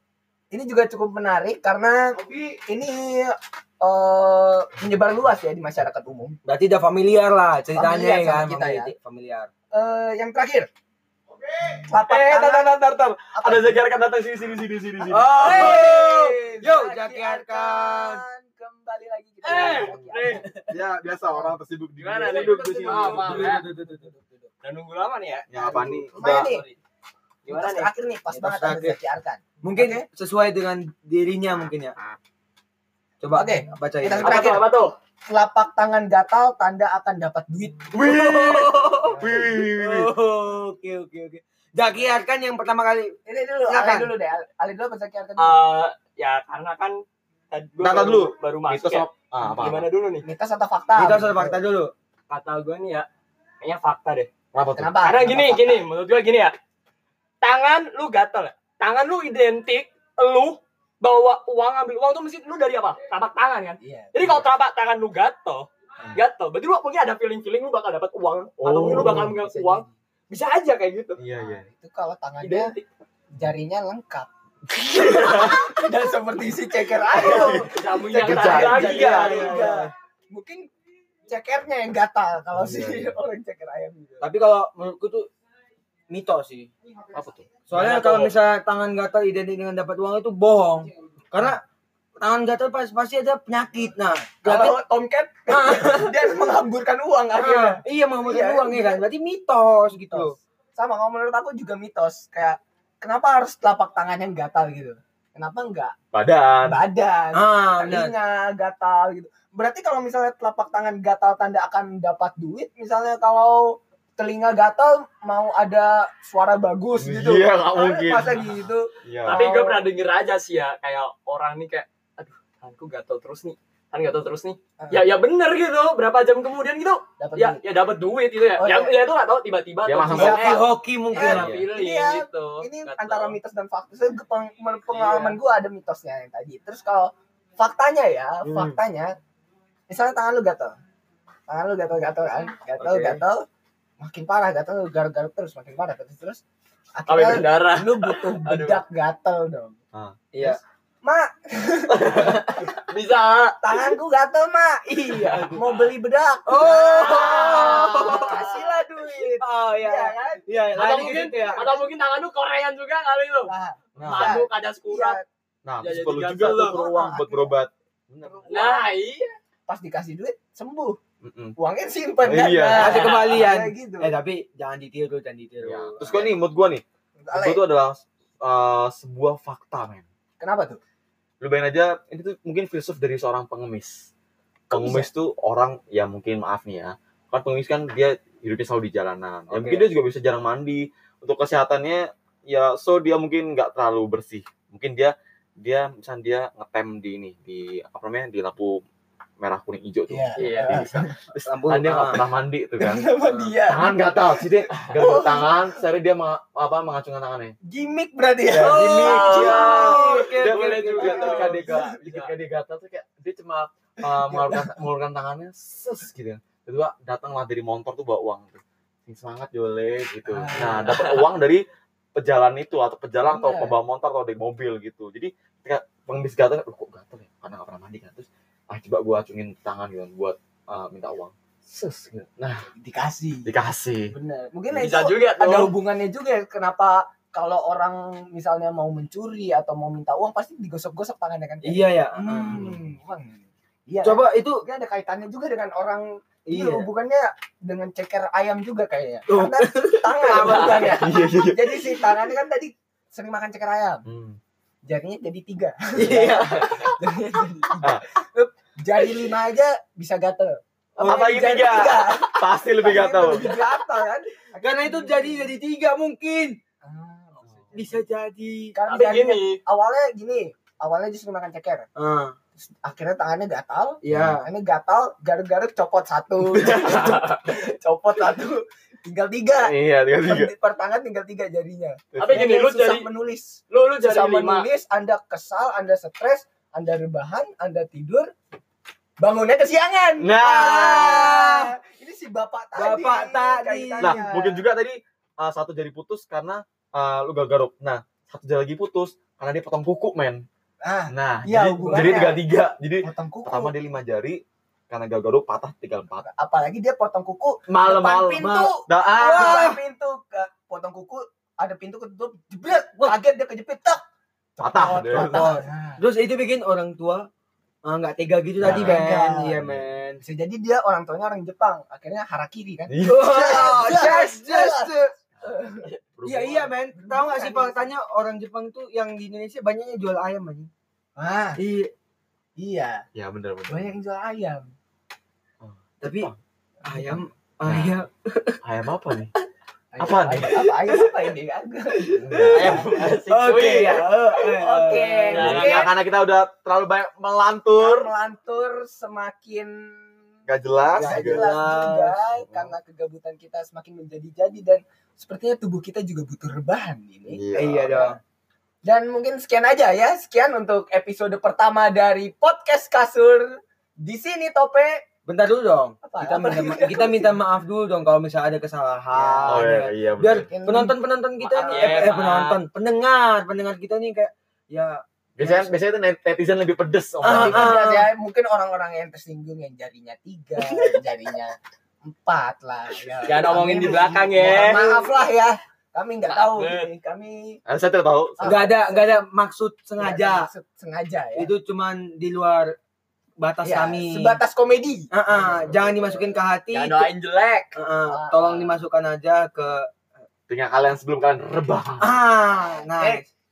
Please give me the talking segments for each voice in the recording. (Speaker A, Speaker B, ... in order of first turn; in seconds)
Speaker A: 0.5-6.4, 7.8-8.9, 9.7-10.7, 11.9-12.7, 13.3-13.8, 15.1-20.6, 23.2-24.5, 26.2-26.6, 27.5-30.1, 33.3-34.7, 35.3-37.9, 43.3-45.6, 50.2-51.6, 54.8-55.8, 63.8-64.5, 68.9-69.9, 71.4-72.8, 73.3-80.7, 81.3-84.3, 94.4-99.0, 100.1-106.0, 106.6-119.8, 124.8-125.1, 127.2-127.6, 128.6-129.0, 131.1-139.2, 139.9-140.8, 141.5-143.4, 144.0-146.4, 147.0-149.8, 150.4-152.5, 153.6-161.8, 163.5-165.2, 166.7-167.5, 168.2-168.8, 169.7-171.0, 171.6-174.2, 177.2-177.6, 180.4-180.8, 184.7-185.1, 200.1-201.2, 202.8-205.6, 207.7-210.3, 211.0-211.9, 214.1-214.8, 220.3-221.1, 223.3-223.8, 232.8-233.5, 234.1-254.0, 254.9-265.6, 266.8-268.0, 268.8-271.9, 272.6-288.3, 289.2-294.6, 300.8-302.4, 303.0-303.7, 306.2-314.0, 314.6-316.0, 318.6-319.6, 320.2-325.9, 326.9-327.9, 331.2-331.6, 332.6-333.0, 333.7-334.7, 339.9-342.9, 344.4-345.9, 347.8-350.0, 351.0-358.1, 358.9-365.0, 366.0-367.4, 369.1-369.6, 370.4-372.1, 375.4-375.7, 377.3-387.6, 388.4-388.7, 390.0-391.5, 393.6-396.2, 398.1-398.8, 403.0-403.2
Speaker B: 6.5-9.5, 15.1-18.2, 19.6-20.6, 22.3-24.1, 25.7-26.5, 28.3-29.0, 29.6-32.0, 33.2-34.4, 38.0-44.1, 51.0-51.9, 78.4-79.9, 82.6-83.1, 84.2-85.3, 86.1-86.7, 87.7-91.6, 92.2-94.8, 95.5-96.4, 97.4-100.3, 107.3-108.1, 130.1-131.6, 138.4-138.8, 142.8-143.2, 150.3-150.6, 154.9-155.6, 156.5-158.5, 159.4-161.7, 172.7-176.3, 201.4-202.2, 208.6-211.5, 241.6-242.7, 244.0-244.6, 246.5-246.9, 249.3-251.1, 256.0-256.8, 261.0-261.4, 264.6-266.6, 267.7-268.8, 272.0-272.4, 274.0-274.5, 290.9-291.7, 292.8-294.2, 309.2-309.8, 315.1-317.3, 317.9-320.2, 323.0-325.1, 326.2-330.7, 331.6-331.9, 336.0-336.3, 336.9-338.6, 340.6-341.1, 342.0-345.8, 350.9-352.2, 357.6-358.2, 365.3-375.0, 377.2-378.1, 388.4-390.5, 391.4-392.8, 393.4-394.4, 395.1-397.1, 397.8-399.9, 402.0-403.3
Speaker C: 11.7-15.9, 20.7-23.3, 25.5-26.4, 38.0-40.1, 47.8-49.9, 54.5-55.0, 68.6-69.3, 71.2-71.7, 74.8-75.7, 77.2-79.9, 87.1-88.3, 106.1-106.8, 117.0-119.4, 129.8-130.6, 131.2-131.7, 164.0-164.4, 165.7-168.6, 171.2-171.6, 172.2-173.0, 175.6-180.1, 181.4-184.1, 184.7-198.8, 199.4-203.1, 203.7-207.6, 208.5-209.7, 210.4-221.6, 222.2-232.6, 233.5-234.1, 242.5-242.8, 250.9-252.0, 254.1-254.4, 256.5-256.8, 261.0-263.5, 267.5-267.8, 274.1-274.4, 276.6-277.1, 279.6-280.5, 282.1-282.5, 290.2-291.4, 294.0-300.4, 301.1-306.3, 307.7-309.6, 314.6-315.5, 318.6-319.0, 319.6-319.9, 322.9-324.0, 325.8-326.7, 333.1-333.9, 335.6-336.4, 337.0-337.9, 338.6-339.3, 340.0-340.6, 342.2-343.6, 345.4-348.1, 350.5-351.5, 352.4-352.7, 357.3-358.0, 369.5-370.5, 375.4-377.9, 387.7-388.8, 395.3-395.8, 400.5-402.1
Speaker D: 19.4-20.4, 22.0-23.6, 24.6-26.8, 27.5-27.9, 34.2-34.9, 45.4-50.3, 52.3-53.1, 53.6-54.3, 55.0-56.5, 57.4-71.2, 72.4-72.8, 77.2-79.8, 119.2-133.4, 147.1-148.8, 151.9-153.9, 155.1-155.7, 156.6-158.6, 160.7-163.5, 164.0-165.2, 165.8-166.8, 168.5-169.3, 172.8-173.4, 200.4-200.8, 208.8-212.3, 220.9-221.2, 234.7-235.7, 268.9-269.6, 276.6-277.4, 282.2-283.1, 283.7-284.7, 343.4-344.1, 345.3-345.9, 371.6-372.6, 383.2-385.0, 386.3-386.9, 396.7-397.8